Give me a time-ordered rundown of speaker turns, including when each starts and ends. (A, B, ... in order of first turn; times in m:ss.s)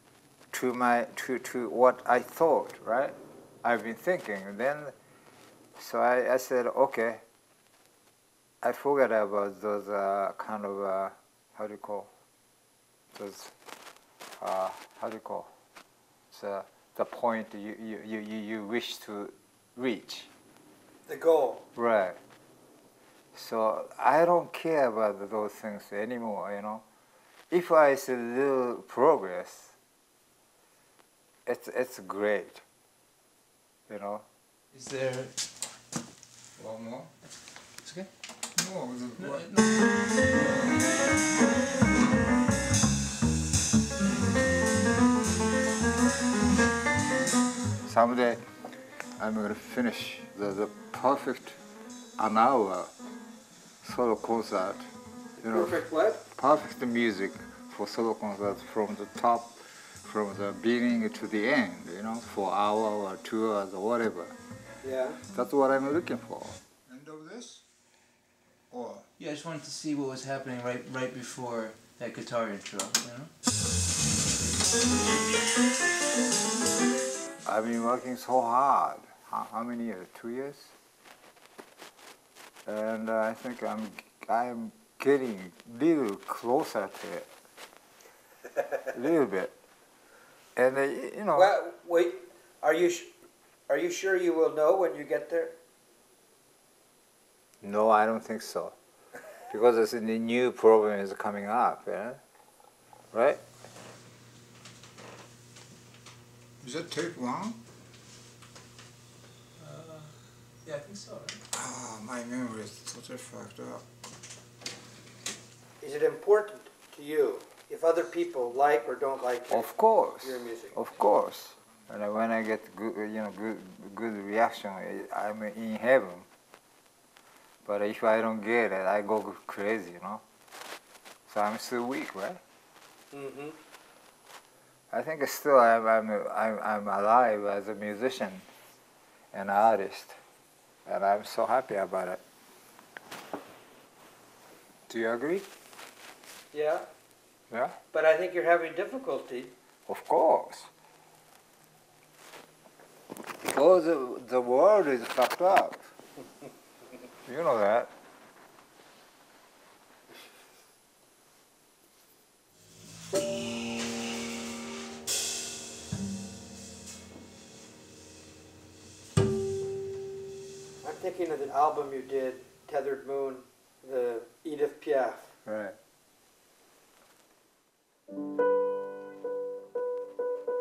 0:00.5-0:05.0 A
0:05.8-0:07.2 A
0:08.6-0:12.1 A
0:13.2-0:13.5 A
0:14.4-0:15.5 A
0:16.3-0:20.3 A
0:21.1-0:21.6 B
0:21.8-0:22.2 A
0:23.3-0:26.8 A
0:27.5-0:29.8 A
0:31.5-0:32.6 A
0:33.9-0:34.2 A
0:34.7-0:35.4 C
0:36.6-0:37.1 A
0:37.8-0:38.1 C
0:38.6-0:39.5 A
0:39.2-0:39.8 C
0:47.9-0:48.4 A
0:49.2-0:51.6 A
0:52.2-0:52.9 A
0:53.8-1:04.4 A
0:55.4-0:56.2 B
1:04.8-1:05.2 B
1:05.3-1:07.6 A
1:08.7-1:09.1 A
1:09.2-1:13.3 C
1:17.4-1:20.7 A
1:22.7-1:27.3 A
1:28.9-1:29.6 A
1:30.6-1:31.5 A
1:31.4-1:33.1 B
1:33.7-1:35.6 B
1:37.6-1:38.8 A
1:39.5-1:42.2 A
1:43.1-1:43.4 A
1:46.6-1:47.6 A
1:49.6-1:51.4 C
1:51.5-1:53.9 A
1:55.8-2:00.8 B
1:59.5-2:06.3 A
2:07.6-2:10.2 A
2:11.3-2:12.4 A
2:13.1-2:13.6 B
2:14.9-2:18.5 A
2:19.3-2:20.2 A
2:20.9-2:22.2 A
2:24.9-2:25.5 A
2:26.5-2:26.8 B
2:27.5-2:27.8 A
2:27.9-2:29.5 B
2:29.9-2:30.7 A
2:33.4-2:35.9 A
2:37.3-2:37.9 A
2:50.8-2:55.3 B
2:55.5-2:55.8 A